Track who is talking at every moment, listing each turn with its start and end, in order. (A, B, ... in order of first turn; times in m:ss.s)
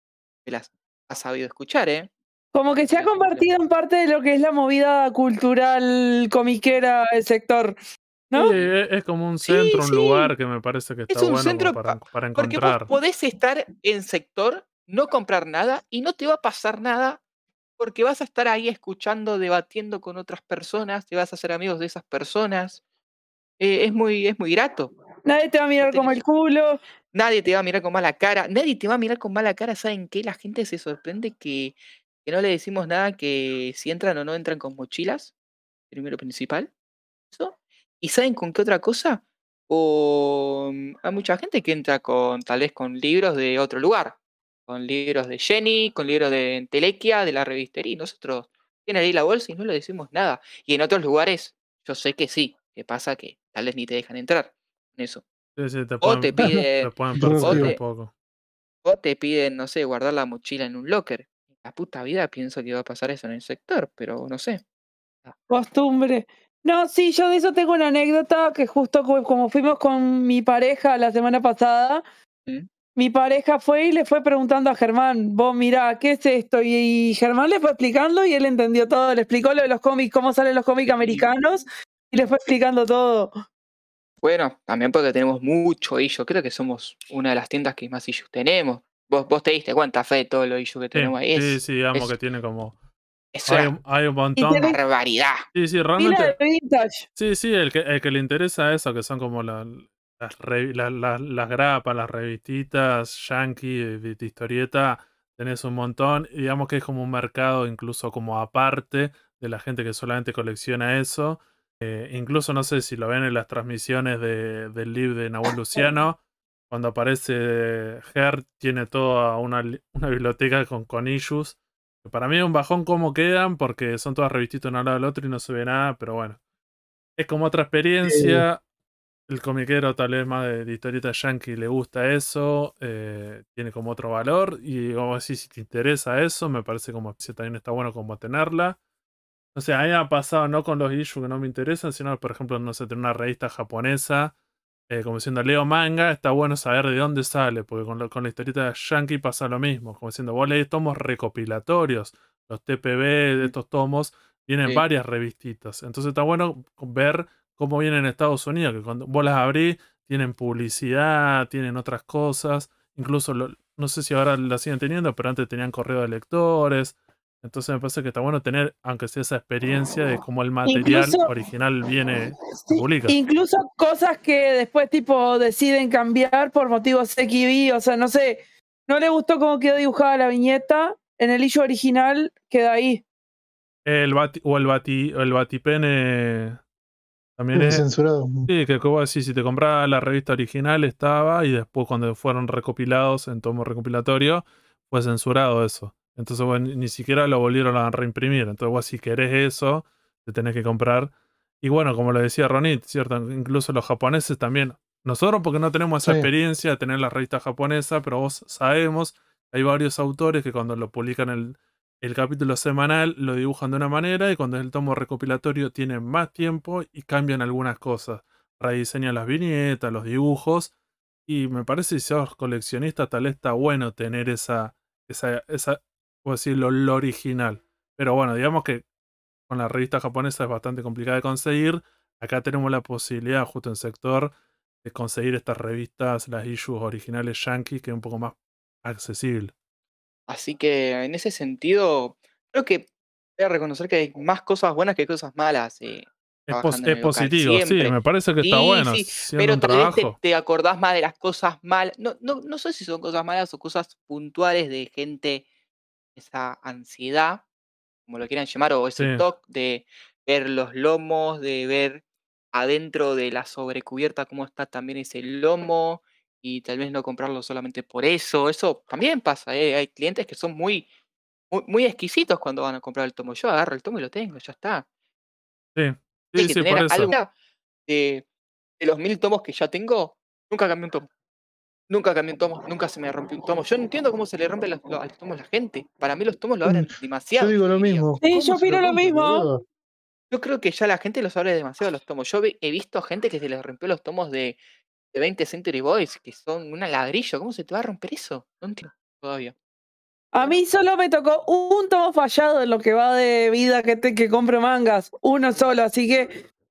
0:00.4-0:02.1 A
0:02.5-0:07.8 B
0:02.7-0:03.6 A
0:08.3-0:08.5 B
0:08.3-0:12.9 C
0:08.4-0:08.7 A
0:09.4-0:10.3 A
0:11.1-0:17.2 A
0:17.8-0:22.8 A
0:23.6-0:24.9 A
0:25.2-0:26.8 B
0:25.8-0:26.2 A
0:27.1-0:35.3 A
0:35.9-0:36.7 A
0:37.3-0:55.2 A
0:55.6-0:58.1 C
0:56.0-0:57.8 A
0:56.4-0:56.6 D
0:57.2-0:57.7 D
0:58.8-1:04.6 A
1:05.5-1:12.0 B
1:13.0-1:23.3 B
1:20.8-1:21.3 A
1:24.2-1:32.2 A
1:30.9-1:32.7 C
1:33.3-1:33.7 A
1:33.5-1:34.7 C
1:34.4-1:34.8 B
1:34.6-1:35.4 A
1:35.5-1:36.4 C
1:36.0-1:37.0 B
1:37.2-1:56.2 C
1:56.7-2:06.4 C
2:07.2-2:08.6 C
2:08.0-2:08.4 D
2:09.3-2:18.8 C
2:19.5-2:24.3 C
2:24.9-2:53.2 C
2:50.6-2:51.3 B
2:52.6-3:03.0 B
3:03.8-3:06.6 C
3:07.4-3:07.8 C
3:07.5-3:08.5 D
3:08.5-3:40.7 C
3:26.0-3:26.3 D
3:41.3-3:48.8 C
3:49.5-3:54.3 C
3:54.8-3:59.5 C
4:00.3-4:15.4 A
4:06.5-4:10.1 C
4:16.2-4:17.4 A
4:18.1-4:30.9 A
4:19.0-4:19.2 C
4:31.5-4:34.8 A
4:35.8-4:37.1 C
4:36.4-4:37.3 A
4:37.9-4:38.2 A
4:38.8-4:41.1 A
4:41.9-4:48.0 A
4:46.6-4:49.6 D
4:48.2-4:49.5 B
4:50.3-4:54.6 A
4:55.1-4:59.5 A
5:00.3-5:06.4 B